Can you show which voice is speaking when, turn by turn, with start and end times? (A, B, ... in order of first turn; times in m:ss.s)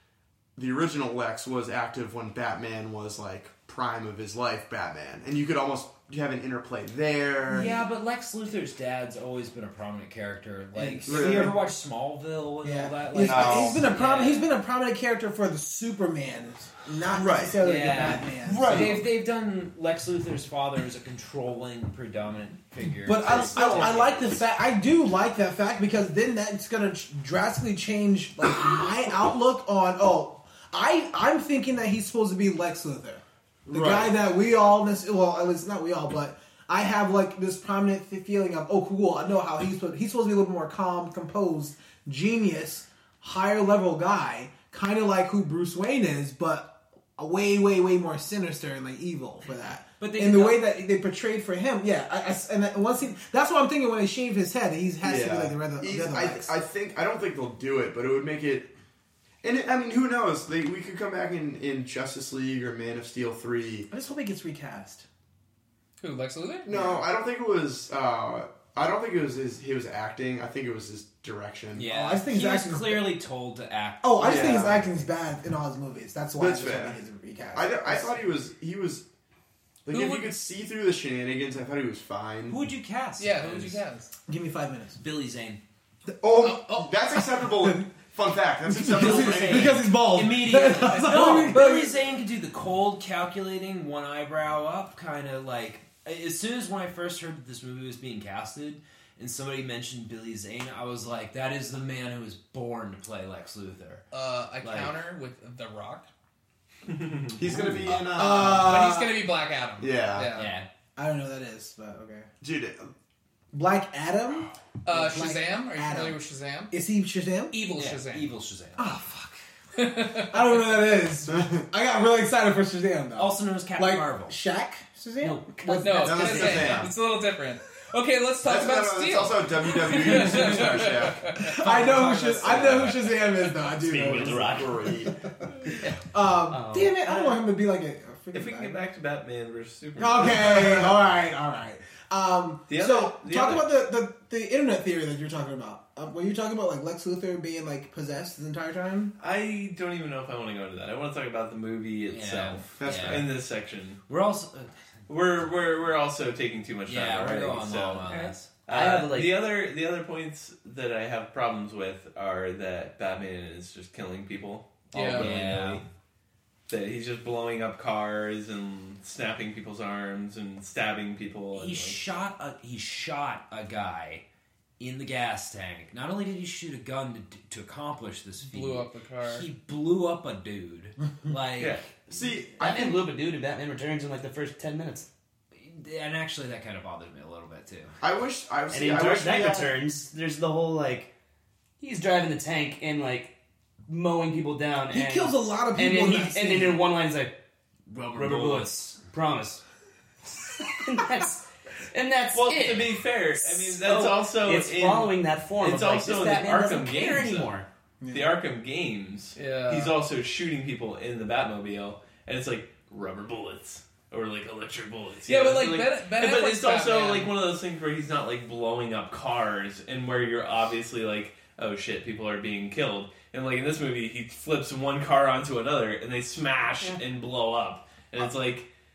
0:00.6-0:07.8 A
0:07.5-0:14.5 B
0:10.7-0:11.6 C
0:11.0-0:11.6 A
0:12.6-0:19.0 C
0:13.2-0:14.0 A
0:17.1-0:17.6 A
0:17.6-0:24.3 B
0:18.4-0:19.0 A
0:22.8-0:56.5 C
0:23.2-0:23.9 A
0:33.7-0:34.1 A
0:50.0-0:50.6 B
0:55.0-0:58.7 A
0:59.4-1:03.9 A
1:03.9-1:05.0 C
1:06.0-1:06.7 D
1:06.6-1:11.9 A
1:06.7-1:07.0 C
1:11.7-1:15.1 B
1:11.8-1:13.2 C
1:14.0-1:18.3 C
1:14.2-1:14.8 A
1:16.4-1:17.0 A
1:17.5-1:19.0 A
1:19.8-1:22.6 A
1:19.9-1:20.4 D
1:22.5-1:23.8 B
1:23.2-1:24.1 D
1:24.3-1:25.0 C
1:25.0-1:25.6 B
1:26.2-1:29.9 A
1:26.4-1:26.9 D
1:27.2-1:27.8 C
1:28.7-1:32.0 C
1:28.9-1:44.0 B
1:44.1-1:46.1 D
1:44.6-1:45.0 B
1:46.9-1:47.4 E
1:47.4-1:48.9 A
1:47.5-1:49.3 C
1:47.9-1:50.5 D
1:49.8-1:50.3 A
1:50.3-1:50.7 B
1:51.0-1:52.3 C
1:52.4-1:52.9 A
1:53.5-1:56.2 C
1:54.8-1:56.7 D
1:56.7-1:57.5 C
1:57.5-1:58.3 D
1:57.7-1:58.8 B
1:58.8-1:59.4 C
1:59.8-2:00.6 D
2:00.3-2:06.8 C
2:01.2-2:01.6 A
2:03.1-2:04.4 B
2:05.2-2:06.8 F
2:05.8-2:13.0 D
2:06.0-2:06.9 A
2:08.4-2:11.4 A
2:11.4-2:18.8 C
2:11.6-2:13.1 B
2:13.8-2:14.9 F
2:14.3-2:15.2 A
2:16.5-2:17.2 F
2:18.3-2:20.9 E
2:20.0-2:29.1 C
2:20.3-2:20.9 A
2:22.7-2:23.7 E
2:29.2-2:34.0 E
2:32.1-2:33.3 B
2:32.8-2:33.3 A
2:34.1-2:34.8 B
2:35.1-2:45.8 E
2:36.9-2:38.6 B
2:38.1-2:39.4 F
2:44.9-2:45.3 D
2:45.1-2:45.8 B
2:46.7-2:52.0 E
2:51.5-2:54.2 B
2:54.8-3:01.8 B
2:58.4-2:59.4 D
3:01.6-3:01.9 E
3:02.1-3:03.0 A
3:02.6-3:05.1 F
3:05.5-3:08.0 B
3:08.0-3:09.8 A
3:08.7-3:11.1 F
3:11.8-3:13.3 F
3:13.9-3:17.3 F
3:14.9-3:16.8 C
3:17.9-3:19.6 F
3:20.2-3:27.6 F
3:22.3-3:27.6 E
3:28.0-3:28.3 C
3:28.1-3:48.7 E
3:29.3-3:29.9 D
3:35.2-3:37.3 D